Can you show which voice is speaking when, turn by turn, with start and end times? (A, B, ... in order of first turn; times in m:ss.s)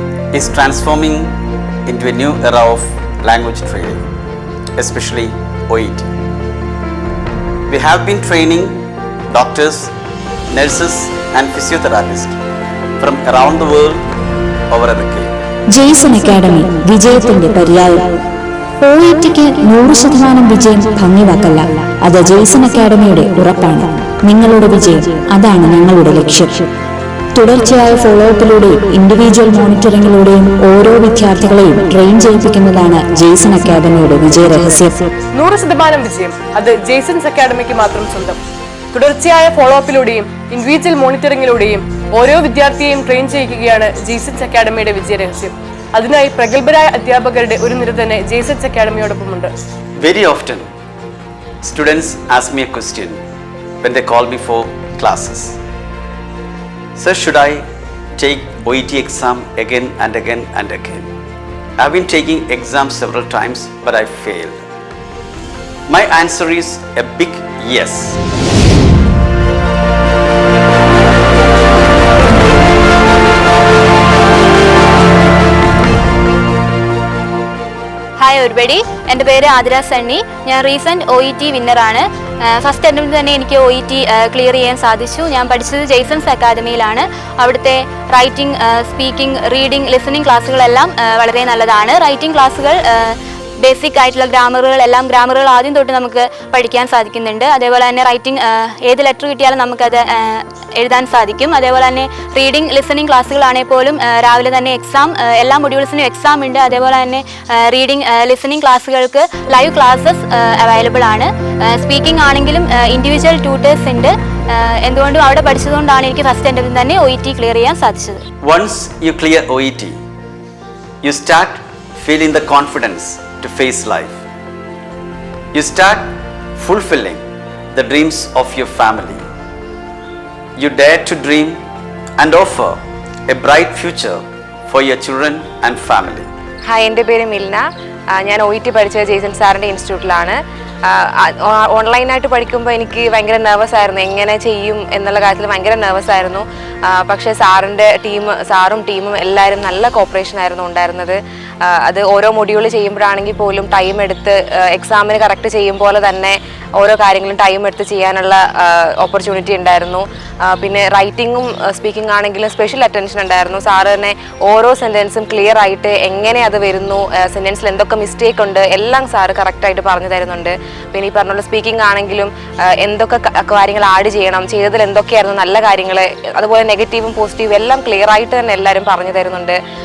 0:00.3-0:01.3 A
0:01.8-0:04.0 A
0:04.8-0:06.1 A
0:07.7-0:09.9 A
0:10.5-0:12.4 A
0:13.0-0:14.0 A
0:14.7-0:15.3 A
0:15.7-0:18.2 B
0:18.8-0:26.7 B
0:27.3-0:35.1 B
0:35.3-0:38.4 C
0:38.9-0:49.5 C
0:50.0-0:50.7 A
0:51.6-0:53.2 A
0:53.8-0:55.6 A
0:57.0-0:57.6 A
0:58.2-1:01.1 A
1:01.8-1:04.6 A
1:05.9-1:08.2 A
1:18.2-1:58.2 D
1:58.4-2:00.0 A
2:01.0-2:04.2 A
2:05.5-2:07.2 A
2:07.7-2:09.2 A
2:10.6-2:11.6 A
2:12.2-2:16.3 A
2:16.7-2:59.6 E